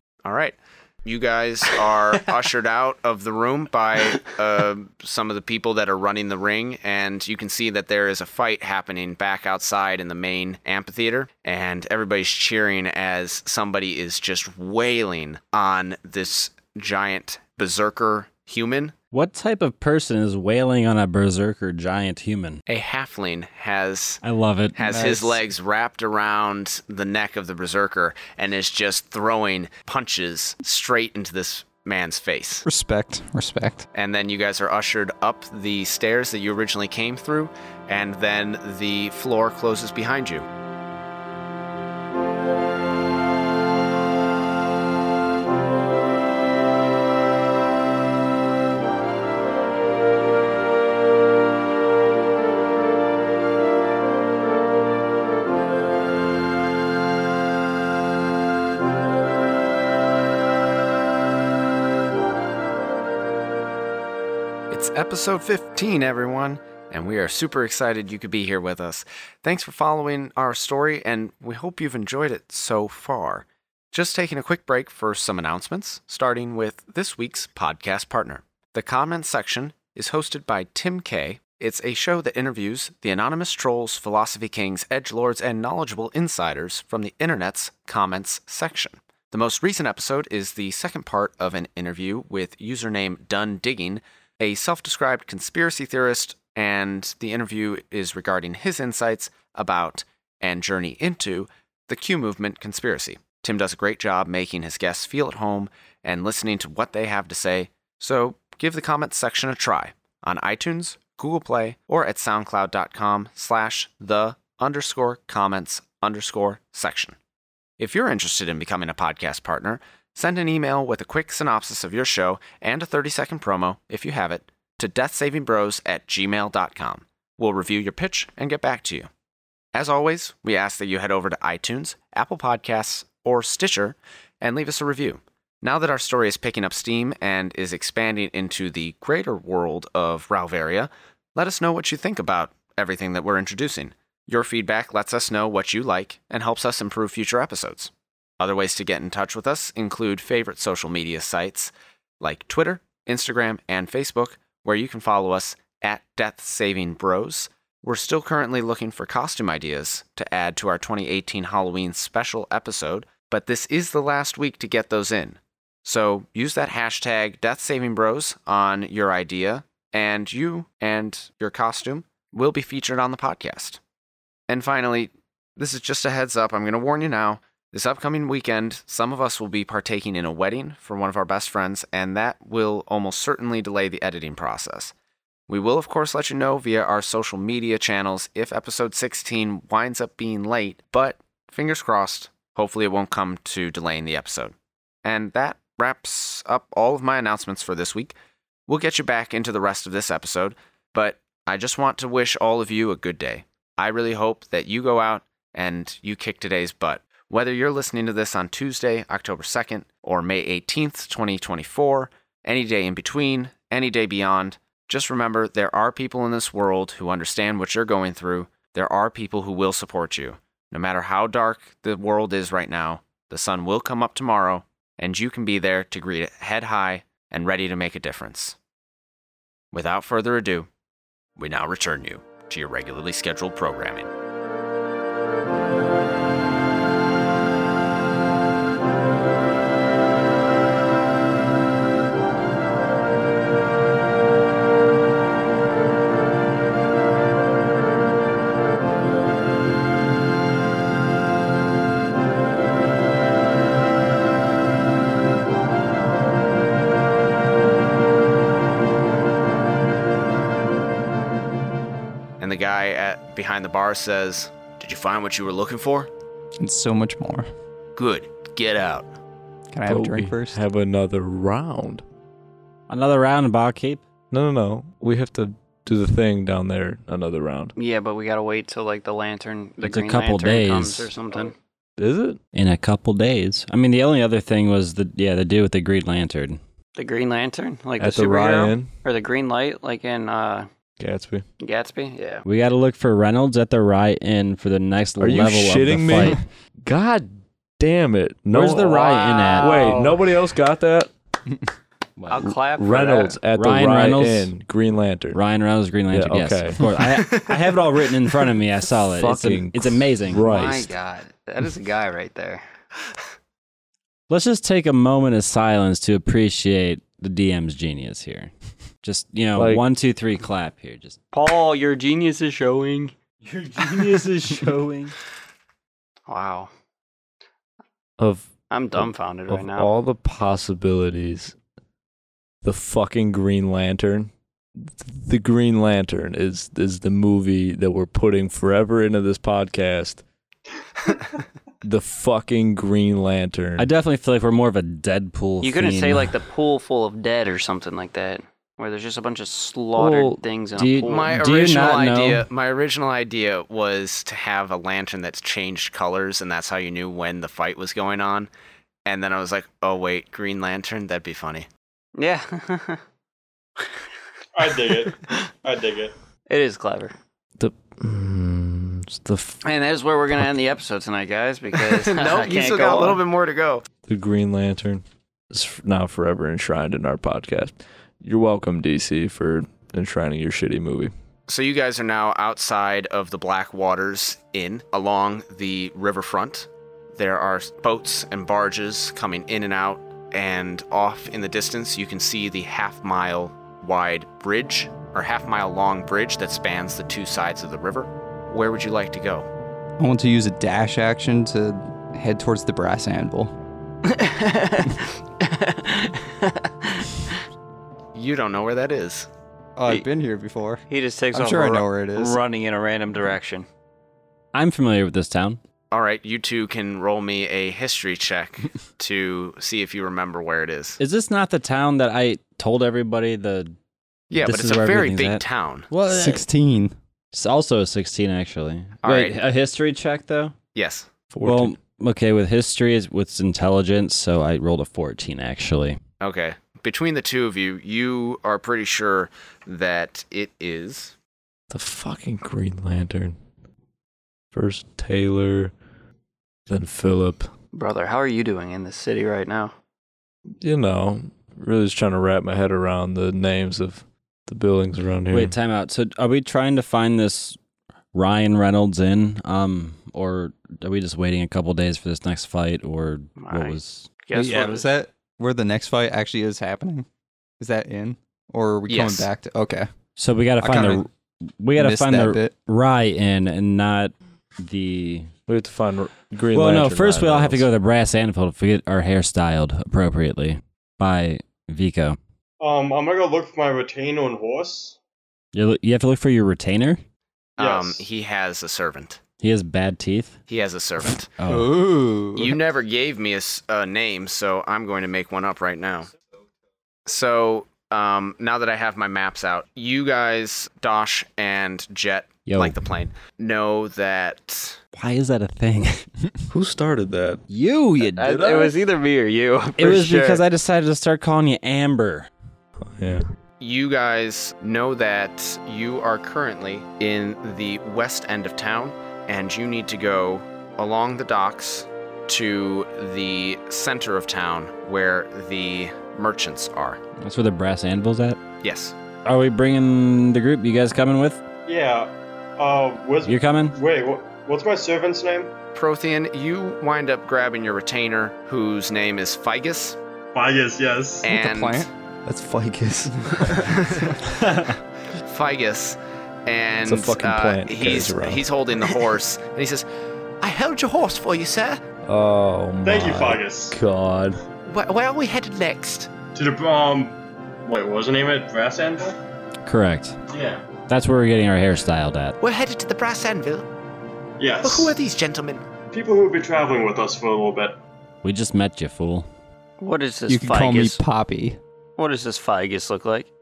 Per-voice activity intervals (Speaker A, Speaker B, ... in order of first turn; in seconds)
Speaker A: 0.2-18.9, 22.7-24.2, 24.8-32.6, 33.9-40.5, 64.7-117.2, 117.8-129.1, 129.7-173.8, 174.5-184.9, 185.5-198.1, 198.7-228.6, 229.7-230.7, 231.4-234.1, 262.4-266.1, 268.0-269.1, 351.1-358.5, 359.1-361.7, 371.9-373.9, 381.5-399.5, 408.1-409.3, 415.9-421.0, 424.3-425.9, 429.0-429.4, 430.7-431.1, 436.2-441.1, 468.9-469.3, 487.6-489.2, 490.5-491.3, 492.4-496.1, 497.1-504.8, 513.6-527.0, 528.6-529.0, 535.8-540.0, 541.2-541.9, 543.5-544.4, 545.1-549.9, 550.4-551.8, 554.6-556.1, 562.4-563.7, 564.6-565.6
Speaker B: 19.1-22.6, 24.2-24.8, 272.9-274.0, 279.8-281.1, 282.5-286.6, 292.5-296.4, 298.5-299.9, 302.2-302.5, 303.6-304.5, 305.3-310.5, 314.3-318.5, 319.0-321.2, 323.4-325.1, 343.8-346.3, 350.8-352.5, 414.5-415.6, 421.0-423.7, 424.4-426.4, 427.3-430.6, 431.4-436.0, 455.3-457.6, 458.1-464.1, 470.2-475.3, 476.5-482.2, 485.5-487.0, 489.4-490.4, 491.4-491.8, 502.5-502.8, 505.0-506.1, 507.5-508.4, 509.8-512.3, 527.2-528.4, 529.2-531.4, 533.2-533.8, 559.7-560.2, 560.9-562.4, 568.2-569.3
Speaker C: 24.9-25.4, 32.6-33.9, 266.6-267.5, 269.7-270.6, 400.0-403.5, 409.8-410.8, 411.3-412.4, 426.1-426.9, 464.3-467.1, 467.6-469.9, 470.6-471.1, 471.8-472.5, 491.5-492.5, 541.3-541.9, 543.1-543.5, 570.3-571.6
Speaker D: 269.9-272.0, 274.3-277.7, 282.0-282.4, 288.0-288.9, 291.0-291.4, 295.2-301.1, 302.4-305.4, 306.1-306.9, 309.0-310.9, 319.6-319.8, 328.2-331.6, 332.6-340.2, 341.8-343.9, 350.0-350.4, 367.6-369.6, 374.1-381.1, 431.3-431.8, 441.7-443.4, 444.5-445.7, 446.7-447.5, 450.6-455.5, 475.5-477.7, 506.5-507.4, 508.1-508.8, 512.8-513.2, 542.3-543.8, 546.8-548.5, 552.0-554.4
Speaker E: 277.8-281.5, 287.0-290.7, 291.6-292.4, 299.0-300.2, 302.3-303.4, 310.4-312.6, 321.3-323.1, 326.3-326.7, 328.7-329.9, 345.6-351.3, 362.2-363.0, 366.5-367.1, 369.6-373.2, 404.1-407.4, 410.9-413.7, 447.7-449.7, 463.4-464.9, 508.2-510.4, 569.8-571.0, 572.0-573.3
Speaker F: 364.6-366.1, 482.6-485.0, 487.6-488.0, 531.7-535.5, 540.3-541.3, 552.9-553.8, 556.3-559.2, 560.3-560.6, 564.4-565.0, 565.9-567.8